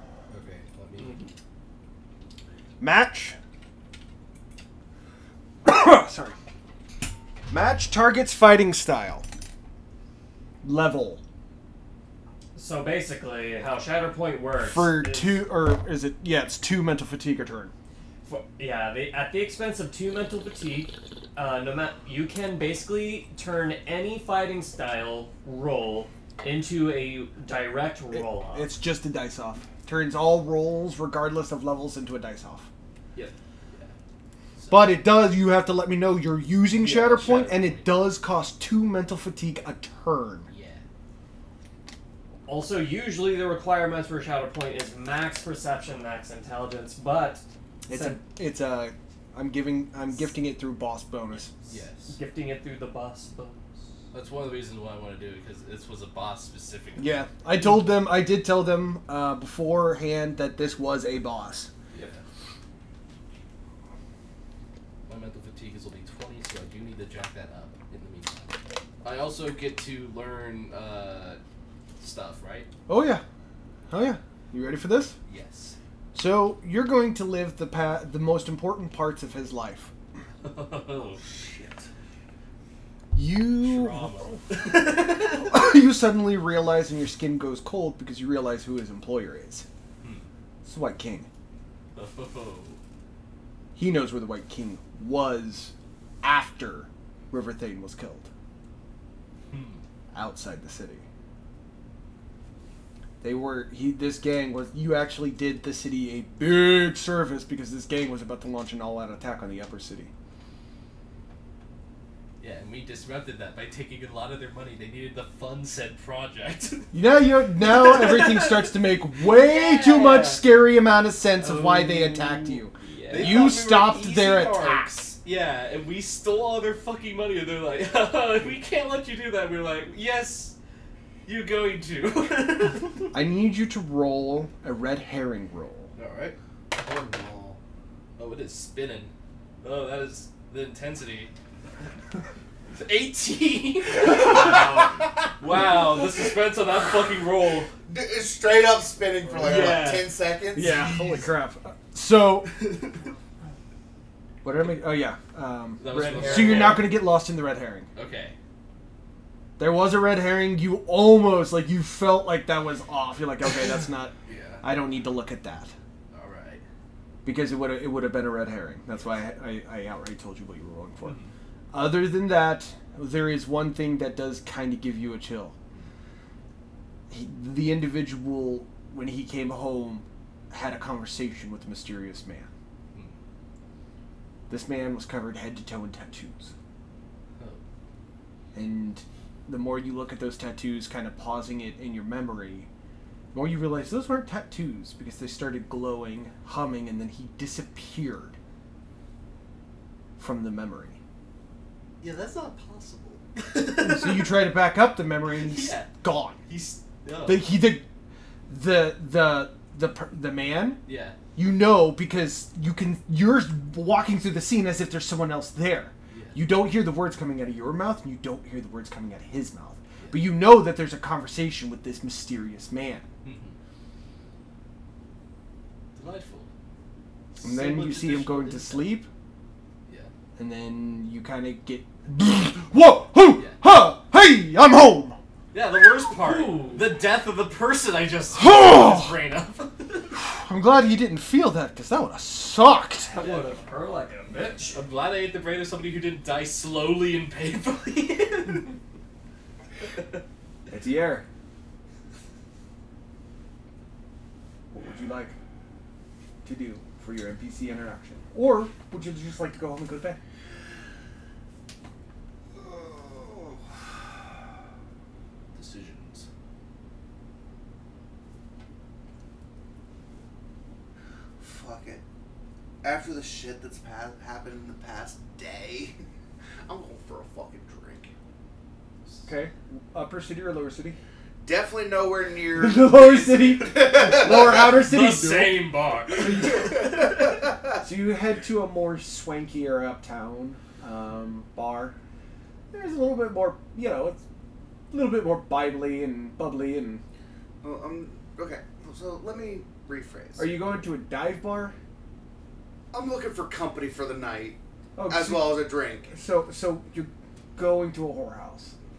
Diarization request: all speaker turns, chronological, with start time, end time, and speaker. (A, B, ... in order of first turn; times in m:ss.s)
0:00.3-0:01.1 A
0:01.0-0:01.3 B
0:02.8-0:03.4 C
0:05.6-0:06.3 C
0:07.5-0:09.2 C
0:10.6-0:11.2 C
0:12.5-0:15.4 B
0:14.6-0:17.7 C
0:18.2-0:28.7 B
0:28.1-0:32.7 C
0:33.2-0:33.9 A
0:34.6-0:35.0 A
0:34.7-0:40.5 C
0:36.8-0:38.1 A
0:40.5-0:40.8 A
0:42.4-0:48.2 B
0:47.9-0:51.5 C
0:51.6-0:52.1 A
0:52.1-0:53.6 B
0:54.1-0:57.3 A
0:57.0-1:01.7 C
1:01.9-1:02.2 A
1:05.1-1:11.4 A
1:12.0-1:12.7 A
1:12.9-1:13.2 C
1:13.9-1:15.1 C
1:15.3-1:15.8 A
1:16.1-1:19.9 C
1:20.4-1:21.2 A
1:21.2-1:21.9 D
1:23.1-1:24.4 C
1:23.6-1:25.6 A
1:25.3-1:29.6 C
1:30.0-1:30.3 A
1:30.6-1:31.3 C
1:31.9-1:32.8 A
1:33.8-1:38.3 C
1:39.5-1:39.8 A
1:40.1-1:41.0 C
1:43.2-1:50.1 C
1:52.4-1:56.9 A
1:56.9-2:05.1 C
1:57.6-1:58.7 A
1:59.4-2:00.4 B
2:01.4-2:03.5 B
2:03.1-2:10.5 A
2:11.2-2:13.2 A
2:13.1-2:15.9 C
2:16.0-2:16.4 A
2:16.7-2:17.6 D
2:18.2-2:19.1 A
2:19.6-2:21.3 A
2:22.7-2:27.7 A
2:24.0-2:25.0 B
2:27.9-2:31.3 D
2:29.4-2:30.1 B
2:30.5-2:32.5 C
2:32.5-2:33.0 A
2:34.4-2:37.9 C
2:35.8-2:36.9 A
2:35.8-2:36.9 B
2:37.9-2:38.4 A
2:39.6-2:45.7 C
2:44.2-2:44.7 A
2:46.1-2:46.6 A
2:47.2-2:51.2 C
2:48.9-2:49.3 A
2:51.0-2:51.3 A
2:51.7-2:55.5 C
2:57.1-3:02.5 C
3:04.5-3:06.5 C
3:07.4-3:07.6 A
3:08.5-3:12.7 C
3:13.3-3:18.4 C
3:20.2-3:21.0 C
3:22.0-3:24.4 A
3:23.7-3:26.4 C
3:25.3-3:25.9 A
3:26.5-3:27.5 A
3:27.2-3:27.8 C
3:28.5-3:30.8 C
3:30.8-3:31.2 A
3:31.3-3:43.0 C
3:36.1-3:36.4 A
3:40.0-3:40.3 A
3:43.2-3:43.6 A
3:45.9-3:46.5 A
3:47.3-3:49.0 A
3:47.4-3:49.1 C
3:50.4-3:55.2 C
3:55.5-4:00.1 A
3:56.2-3:56.9 B
3:58.4-3:59.1 C
4:00.1-4:03.1 C
4:03.0-4:04.8 B
4:03.2-4:03.5 A
4:04.7-4:08.7 A
4:10.7-4:11.2 C
4:14.7-4:15.4 C
4:16.4-4:20.2 C
4:22.5-4:23.8 D
4:25.5-4:26.3 A
4:31.4-4:32.0 D
4:32.8-4:36.0 D
4:36.6-4:38.1 D
4:39.2-4:41.0 C
4:41.4-4:44.7 D
4:42.5-4:47.1 C
4:44.0-4:47.4 A
4:46.2-4:47.6 D
4:47.8-4:51.9 C
4:52.7-4:54.2 C
4:54.9-4:57.0 C
4:57.6-5:00.6 D
5:00.4-5:01.8 C
5:02.9-5:04.6 D
5:05.0-5:08.7 C
5:05.1-5:06.2 D